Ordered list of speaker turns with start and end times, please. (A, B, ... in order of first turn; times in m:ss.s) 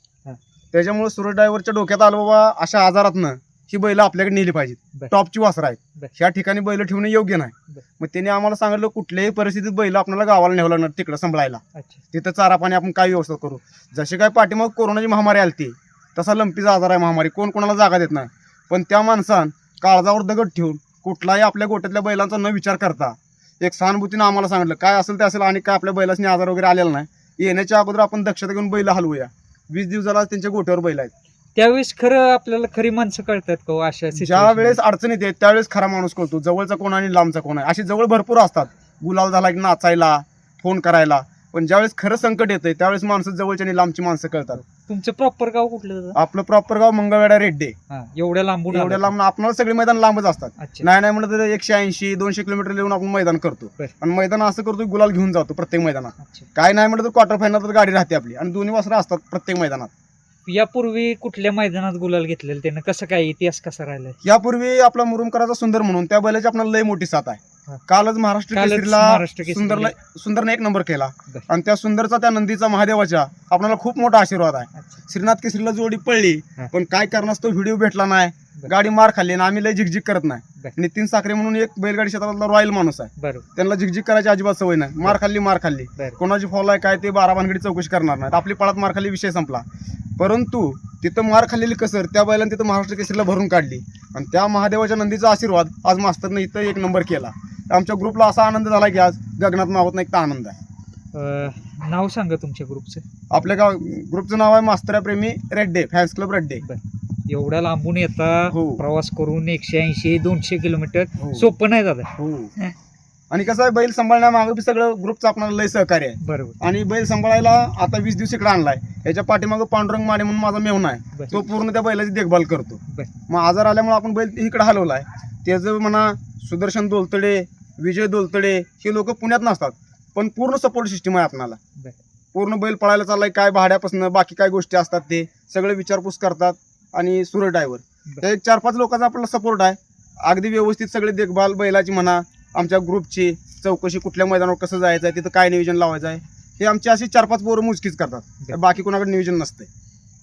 0:00.7-0:11.6 A
0:11.7-0:12.0 B
0:12.1-0:31.1 A
0:31.5-0:34.8 B
0:34.1-0:44.6 A
0:44.6-0:46.2 B
0:46.1-0:47.8 A
0:47.9-0:49.1 B
0:48.7-0:59.9 A
0:50.6-0:50.9 B
0:56.2-0:56.5 B
1:00.4-1:04.2 B
1:04.2-1:29.6 A
1:08.5-1:09.9 B
1:14.7-1:15.0 B
1:23.2-1:23.4 B
1:30.2-1:40.6 A
1:41.1-1:43.0 B
1:43.3-1:46.6 A
1:46.6-1:52.7 B
1:48.5-1:48.8 A
1:51.2-1:51.5 A
1:52.2-1:52.5 A
1:53.3-2:11.6 A
1:56.2-1:56.6 B
2:01.1-2:01.4 B
2:12.3-2:29.7 A